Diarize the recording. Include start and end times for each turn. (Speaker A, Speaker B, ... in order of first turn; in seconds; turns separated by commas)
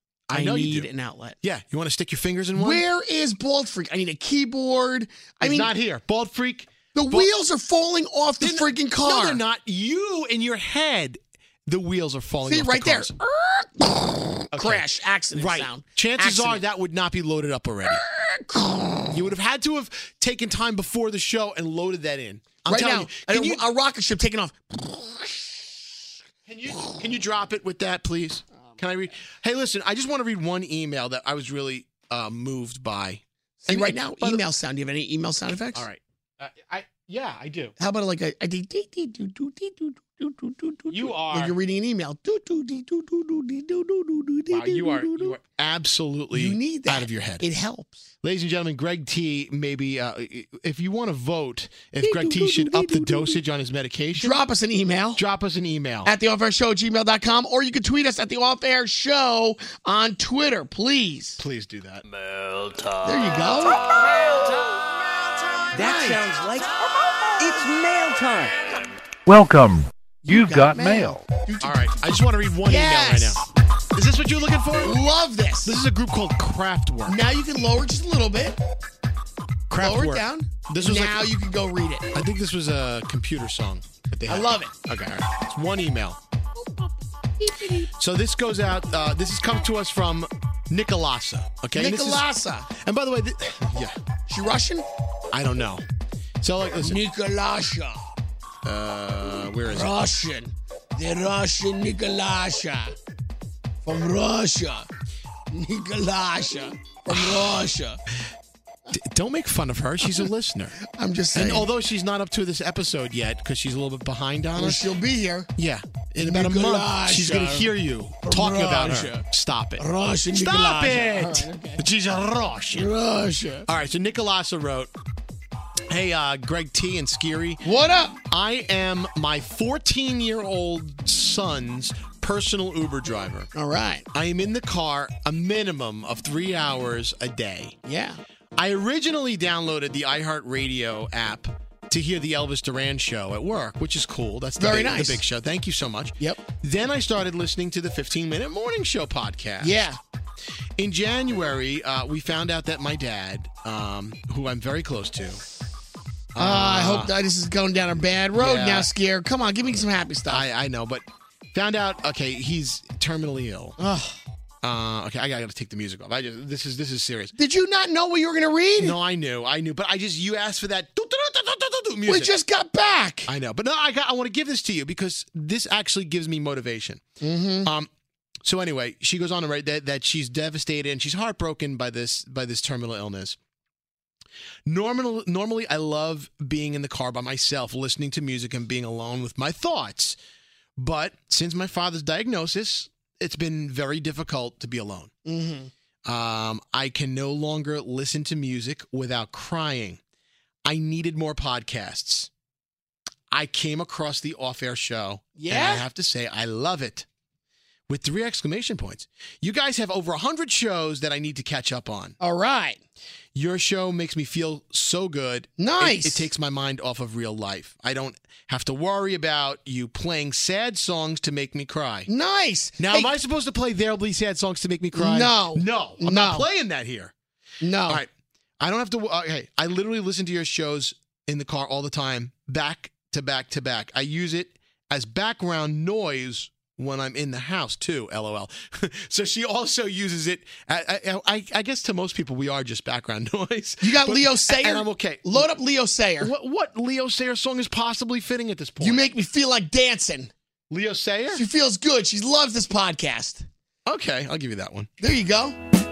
Speaker A: 0.3-0.9, Speaker B: 0.3-1.4, Speaker A: 1.4-2.8, Speaker B: 2.5-5.7, Speaker A: 5.4-7.3, Speaker B: 6.9-9.4, Speaker A: 8.4-13.1, Speaker B: 12.4-16.6, Speaker A: 14.5-18.0, Speaker B: 17.9-19.2, Speaker A: 19.1-23.6, Speaker B: 22.7-25.7, Speaker A: 26.4-34.4, Speaker B: 33.6-35.9, Speaker A: 35.7-37.7, Speaker B: 37.8-45.4, Speaker A: 40.9-41.5, Speaker A: 44.5-47.4, Speaker B: 46.3-48.0, Speaker A: 48.2-54.4, Speaker B: 52.0-53.4, Speaker B: 54.2-55.2, Speaker A: 55.1-56.1, Speaker B: 56.0-61.4, Speaker A: 61.4-62.0, Speaker B: 63.0-63.9, Speaker B: 65.7-66.2, Speaker C: 65.8-66.7, Speaker C: 67.4-68.5, Speaker B: 70.2-71.9, Speaker A: 71.6-75.0, Speaker B: 72.6-73.5, Speaker B: 74.8-75.8, Speaker A: 75.6-77.2, Speaker B: 77.1-78.6, Speaker A: 79.7-81.3, Speaker B: 79.8-82.1, Speaker A: 82.1-86.2, Speaker B: 84.3-84.7, Speaker B: 86.6-87.9, Speaker A: 88.0-94.0, Speaker B: 91.7-92.7, Speaker B: 94.3-94.8, Speaker A: 95.3-95.8, Speaker A: 96.4-97.0, Speaker B: 96.8-98.0, Speaker A: 98.6-100.0, Speaker B: 99.7-102.9, Speaker B: 103.8-104.9, Speaker B: 105.5-108.0, Speaker A: 107.1-107.6, Speaker A: 108.9-110.8, Speaker B: 110.8-111.7, Speaker A: 111.3-114.8, Speaker B: 114.5-115.5, Speaker A: 115.5-122.9, Speaker B: 116.2-117.7, Speaker B: 118.2-119.2, Speaker B: 119.8-121.8, Speaker B: 122.7-123.7, Speaker A: 123.7-124.9, Speaker A: 125.9-127.6, Speaker B: 127.6-128.2, Speaker A: 128.2-133.5, Speaker B: 133.5-134.1, Speaker A: 134.1-137.8, Speaker B: 137.8-138.2, Speaker A: 138.6-149.9, Speaker B: 144.6-145.2, Speaker B: 149.6-150.0, Speaker A: 150.8-155.4, Speaker A: 156.3-157.1, Speaker B: 156.3-160.4, Speaker A: 158.3-158.9, Speaker A: 160.3-163.8, Speaker B: 163.8-164.2, Speaker A: 164.6-167.3, Speaker B: 167.3-169.0, Speaker A: 168.8-172.3, Speaker B: 172.1-173.3, Speaker A: 173.3-177.0, Speaker B: 177.2-177.7, Speaker A: 177.6-177.9, Speaker A: 178.4-183.4, Speaker A: 184.7-190.2, Speaker A: 190.8-195.1, Speaker B: 195.2-195.7, Speaker A: 196.0-200.0, Speaker A: 200.6-202.3, Speaker A: 203.3-207.1, Speaker B: 205.4-205.8, Speaker A: 207.9-212.2, Speaker B: 212.2-212.8, Speaker A: 213.3-222.1, Speaker B: 215.6-216.3, Speaker B: 222.1-223.1, Speaker A: 222.8-227.1, Speaker B: 224.9-226.5, Speaker B: 227.6-228.0, Speaker A: 228.6-245.5, Speaker B: 243.8-246.3, Speaker A: 246.2-249.0, Speaker B: 248.8-250.3, Speaker A: 250.7-251.4, Speaker B: 251.3-253.4, Speaker A: 253.8-254.9, Speaker B: 255.0-255.6